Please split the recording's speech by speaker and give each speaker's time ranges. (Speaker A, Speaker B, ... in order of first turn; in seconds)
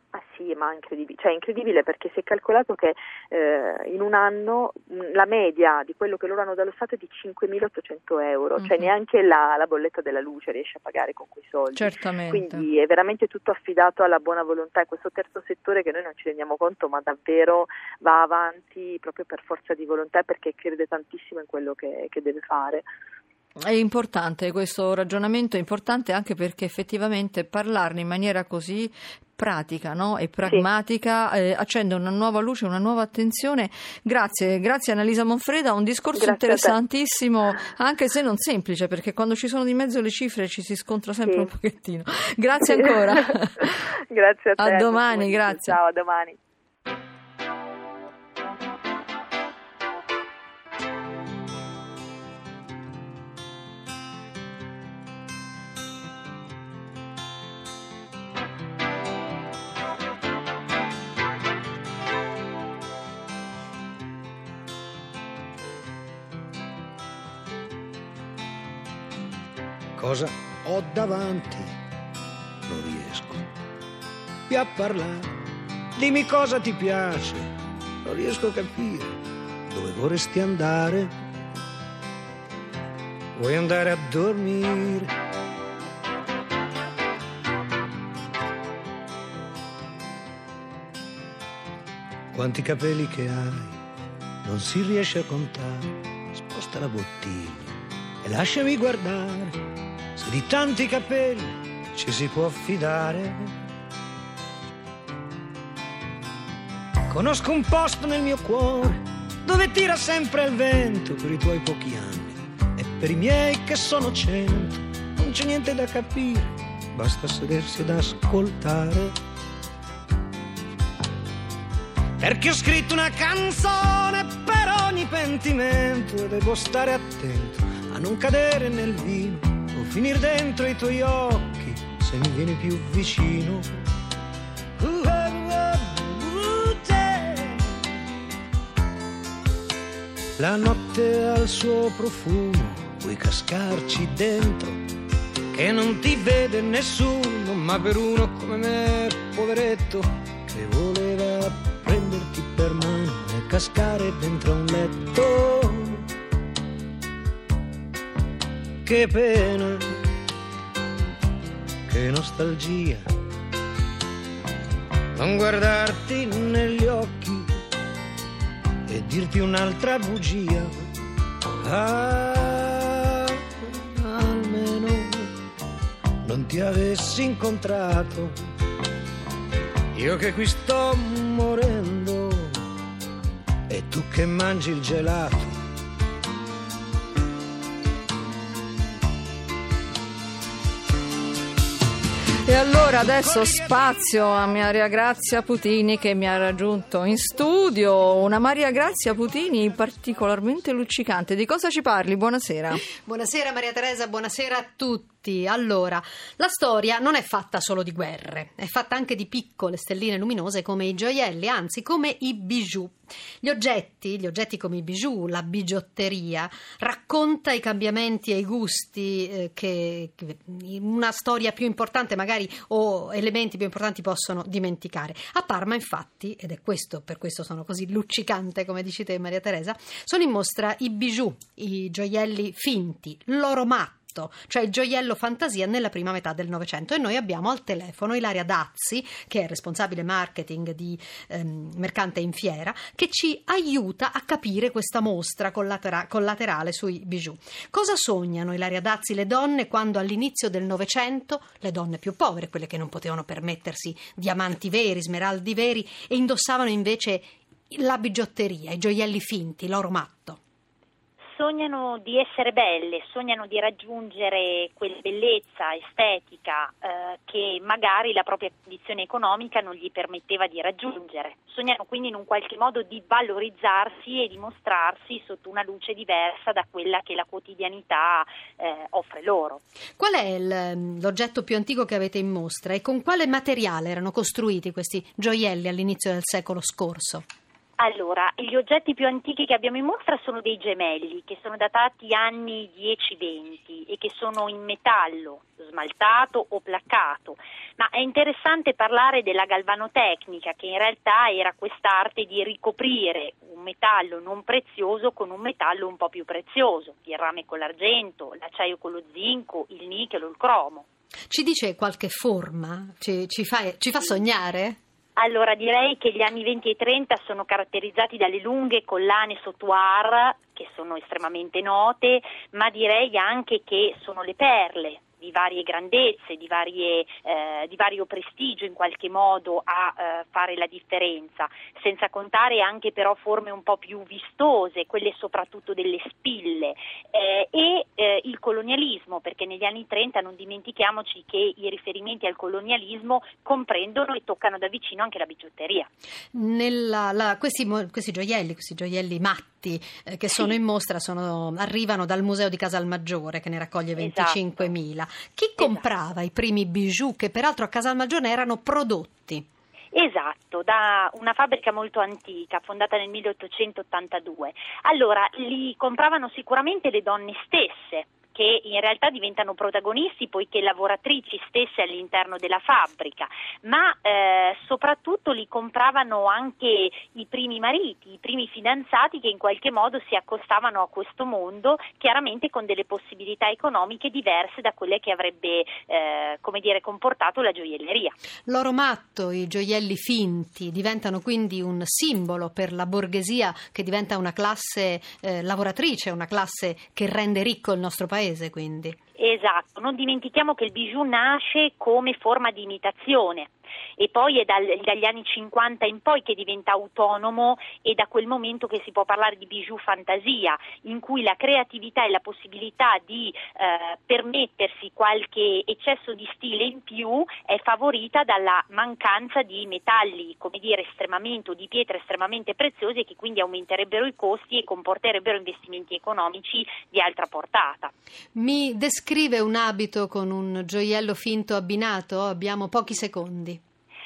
Speaker A: 0.1-22.9, 36.1-36.8, 42.6-43.2, 43.8-46.4
Speaker B: 8.6-8.9, 11.8-12.7, 23.7-43.9, 44.6-45.8, 192.5-202.8
Speaker C: 70.0-71.7, 72.7-73.5, 74.5-75.3, 76.0-77.5, 78.0-79.1, 79.7-81.1, 83.4-85.1, 92.3-93.8, 94.4-97.7, 98.2-99.6, 100.2-103.5, 107.1-119.1, 122.2-133.7, 134.8-137.7, 140.4-144.8, 145.5-156.0, 158.8-159.8, 161.9-163.1, 165.2-167.5, 168.9-170.7, 171.6-175.3, 176.2-178.3, 179.9-182.5, 183.7-185.6, 193.0-193.8
Speaker D: 202.9-260.4, 280.0-287.2, 311.3-314.8, 346.3-359.5, 388.5-399.0, 428.4-433.6
Speaker E: 261.4-279.6, 287.8-310.9, 315.2-345.9, 354.0-354.7, 355.6-355.9, 359.9-388.1, 399.2-427.9